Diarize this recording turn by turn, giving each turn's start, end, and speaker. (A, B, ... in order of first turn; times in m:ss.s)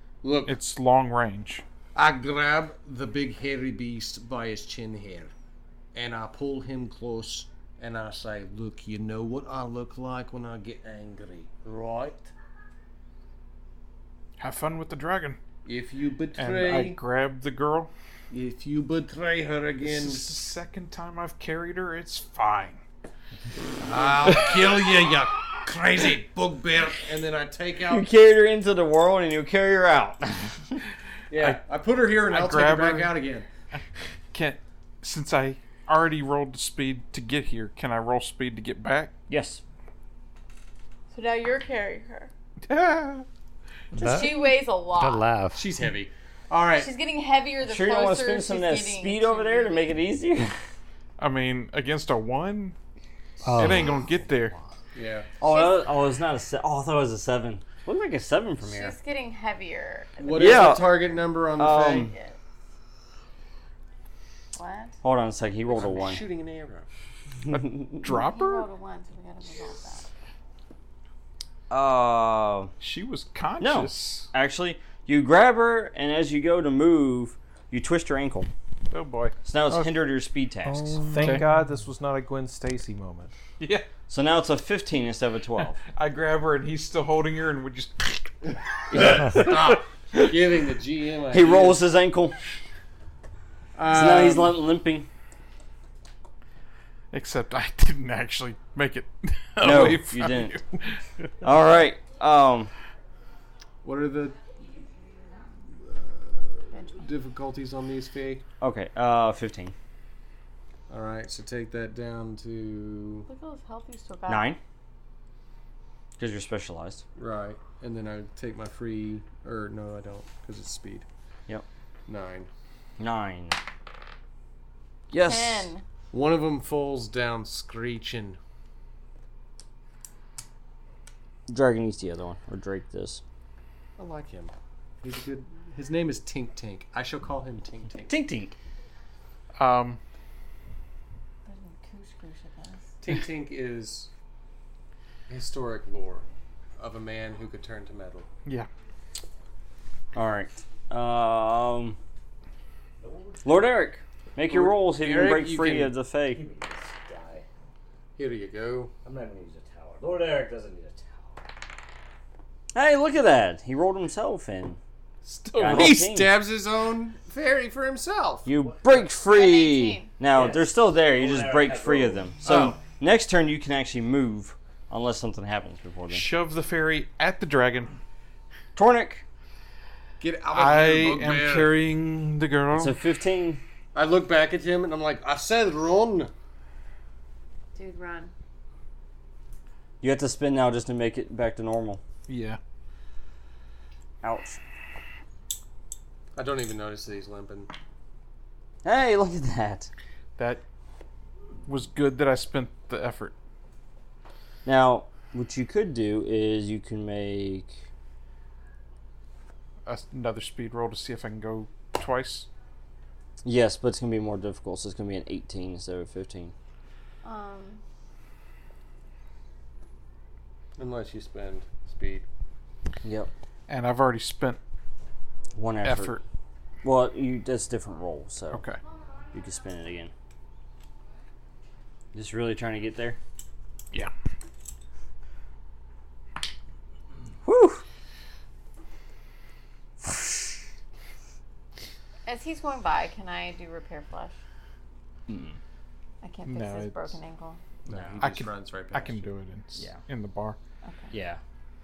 0:00.2-0:00.6 A
0:00.5-0:01.6 B
0:02.0-0:05.3 A
0:05.9-0:12.3 A
0:14.4-0:15.4 B
0:15.6-0:17.0 A
0:16.4-0:17.9 B
0:18.3-0:20.3 A
0:19.8-0:22.8 B
0:23.9-0:28.1 A
0:24.3-0:24.6 B
0:27.9-0:30.8 C
0:31.3-0:33.5 A
0:32.2-0:33.2 B
0:34.3-0:39.1 B
0:39.3-0:39.6 C
0:41.1-0:42.3 D
0:42.7-0:43.3 B
0:43.9-0:45.6 E
0:44.0-0:45.3 D
0:45.6-0:46.9 A
0:46.8-0:49.9 D
0:47.6-0:50.5 C
0:51.2-0:52.8 B
0:53.4-0:54.1 E
0:53.5-0:54.6 B
0:55.0-0:55.3 A
0:55.4-0:59.0 C
0:55.4-0:55.8 D
0:58.6-1:01.0 D
1:00.2-1:02.1 A
1:00.4-1:01.0 C
1:01.6-1:02.1 C
1:01.9-1:02.4 D
1:04.5-1:05.0 D
1:05.0-1:06.2 C
1:05.7-1:06.9 A
1:07.5-1:08.7 B
1:07.5-1:08.0 C
1:08.0-1:10.1 D
1:11.7-1:12.7 C
1:12.8-1:14.3 B
1:13.6-1:18.5 C
1:18.9-1:19.9 B
1:19.4-1:21.1 C
1:20.7-1:21.5 E
1:21.1-1:23.3 F
1:21.2-1:21.5 B
1:23.6-1:23.9 B
1:24.1-1:25.8 C
1:25.9-1:30.3 B
1:28.9-1:31.8 A
1:31.3-1:32.4 C
1:33.8-1:34.6 A
1:33.9-1:35.1 C
1:37.1-1:41.0 B
1:39.6-1:40.6 C
1:41.4-1:42.7 C
1:43.8-1:44.4 A
1:45.7-1:48.4 A
1:46.7-1:47.1 D
1:48.6-1:49.8 C
1:50.9-1:53.3 A
1:53.3-1:54.5 D
1:54.3-1:54.6 C
1:56.2-1:57.0 C
1:57.2-2:01.1 A
2:02.1-2:02.5 A
2:03.0-2:03.6 C
2:05.1-2:05.7 C
2:05.1-2:05.8 D
2:06.1-2:08.4 A
2:11.5-2:13.2 C
2:14.0-2:18.2 A
2:18.1-2:18.6 C
2:19.6-2:20.0 B
2:21.5-2:23.0 D
2:23.0-2:24.1 A
2:25.3-2:28.3 A
2:30.1-2:32.0 C
2:33.0-2:33.5 E
2:33.4-2:36.5 C
2:34.5-2:35.9 A
2:36.3-2:37.4 E
2:38.2-2:38.9 A
2:39.0-2:41.4 E
2:42.7-2:44.8 C
2:45.2-2:46.0 B
2:45.5-2:46.4 C
2:45.7-2:48.5 A
2:48.4-2:56.3 C
2:49.2-2:50.1 D
2:50.3-2:52.4 E
2:52.4-2:52.8 A
2:56.1-2:58.0 B
2:58.8-2:59.2 C
3:00.2-3:01.8 A
3:00.5-3:03.0 B
3:02.7-3:03.6 C
3:03.9-3:06.3 A
3:07.8-3:08.3 D
3:10.0-3:12.0 C
3:12.3-3:12.6 B
3:14.2-3:14.6 C
3:16.4-3:17.7 A
3:18.8-3:19.9 C
3:20.4-3:20.6 B
3:21.7-3:23.4 B
3:24.6-3:27.8 C
3:29.9-3:32.5 B
3:33.4-3:36.5 C
3:37.2-3:37.8 D
3:40.8-3:42.3 A
3:43.0-3:43.3 C
3:43.7-3:44.6 B
3:45.6-3:46.2 C
3:45.8-3:46.2 B
3:46.8-3:48.6 C
3:48.5-3:48.8 B
3:49.3-3:50.1 C
3:52.1-3:53.2 C
3:57.4-3:57.8 C
4:02.3-4:04.4 D
4:05.3-4:05.6 C
4:06.2-4:07.6 D
4:06.5-4:07.2 B
4:07.9-4:08.3 C
4:07.9-4:09.3 A
4:08.2-4:10.6 B
4:09.8-4:10.0 C
4:10.8-4:11.1 D
4:11.1-4:11.4 C